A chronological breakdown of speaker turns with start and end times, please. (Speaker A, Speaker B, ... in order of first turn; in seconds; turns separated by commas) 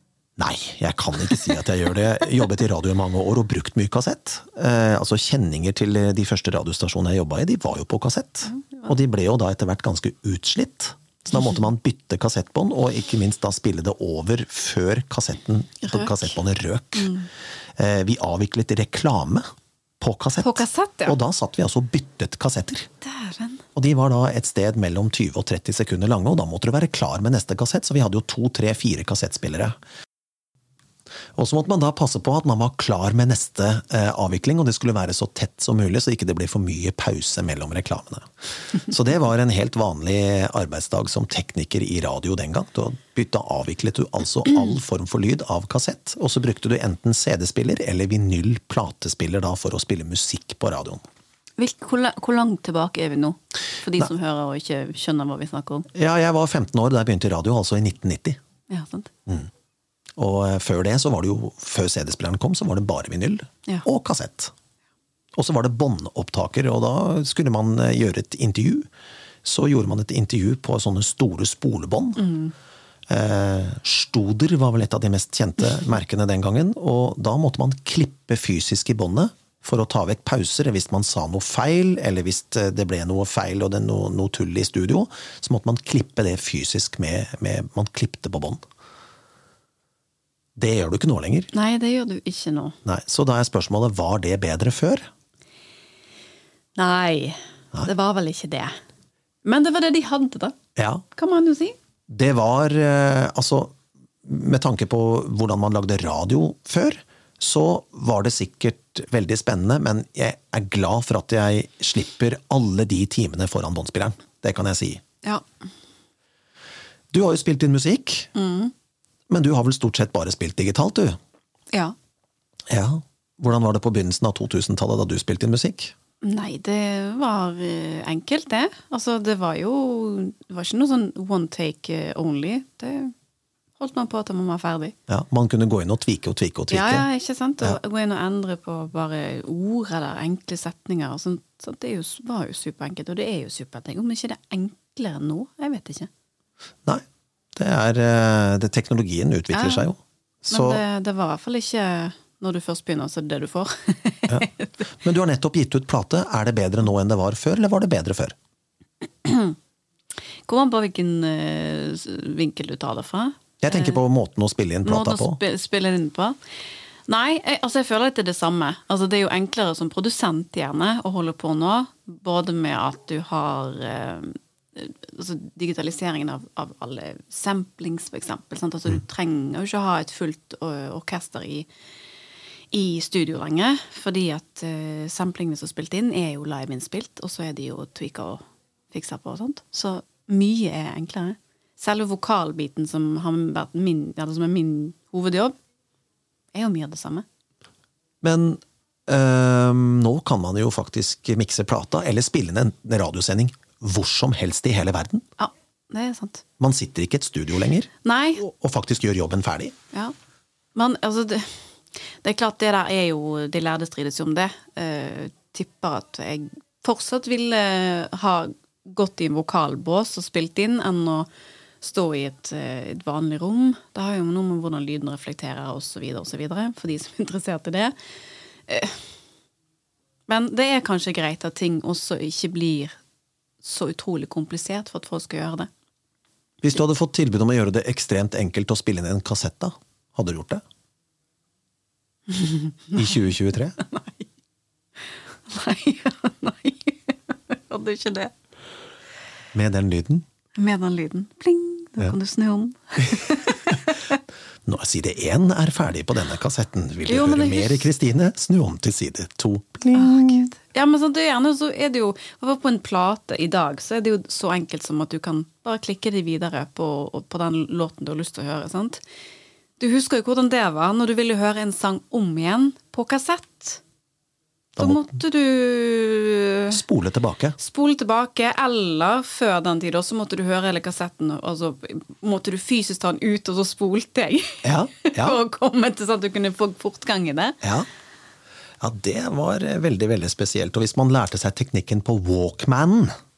Speaker A: 0.4-17.1, Speaker B: 8.5-8.9, Speaker B: 15.8-16.3, Speaker B: 17.0-17.3, Speaker A: 17.8-19.5, Speaker A: 20.0-22.9, Speaker B: 20.4-21.2, Speaker B: 23.0-23.6, Speaker A: 23.8-29.8, Speaker A: 31.4-51.0, Speaker B: 51.6-55.9, Speaker A: 55.9-58.4, Speaker B: 58.7-59.1, Speaker A: 60.2-64.5, Speaker A: 65.3-68.9, Speaker A: 69.4-72.2, Speaker B: 72.2-72.5, Speaker A: 73.1-88.6, Speaker A: 90.6-91.5, Speaker B: 91.5-92.8, Speaker A: 92.8-95.1, Speaker B: 96.8-98.8, Speaker B: 99.5-100.6, Speaker A: 100.8-101.0, Speaker B: 101.2-101.8, Speaker A: 102.1-115.0, Speaker A: 117.1-118.3, Speaker B: 118.3-118.7, Speaker A: 119.3-121.2, Speaker A: 122.7-125.9, Speaker B: 126.2-133.1, Speaker B: 133.8-134.9, Speaker A: 135.1-137.1, Speaker B: 136.7-146.1, Speaker A: 147.6-150.8, Speaker B: 149.5-149.9, Speaker B: 150.5-154.9, Speaker A: 154.3-158.4, Speaker B: 159.2-159.6, Speaker B: 160.5-164.0, Speaker A: 163.6-165.4, Speaker B: 164.8-166.4, Speaker B: 167.1-181.7, Speaker B: 182.7-195.6, Speaker B: 196.5-197.2, Speaker A: 198.2-205.3, Speaker B: 205.4-206.4, Speaker A: 206.6-209.8, Speaker B: 208.0-208.4, Speaker B: 210.8-211.6, Speaker B: 212.2-221.3, Speaker B: 221.8-227.9, Speaker B: 228.7-229.0, Speaker B: 230.3-232.9, Speaker B: 233.6-235.7, Speaker A: 236.6-240.6, Speaker B: 242.3-243.3, Speaker A: 242.9-243.8, Speaker B: 243.8-244.3, Speaker B: 245.5-248.3, Speaker A: 249.5-250.3, Speaker B: 250.6-254.2, Speaker A: 254.7-260.5, Speaker B: 257.1-257.9, Speaker B: 259.9-269.0, Speaker B: 269.8-273.8, Speaker B: 274.8-276.8, Speaker A: 276.7-277.6, Speaker B: 277.6-287.6, Speaker A: 284.6-285.4, Speaker A: 287.6-287.9, Speaker A: 288.8-293.1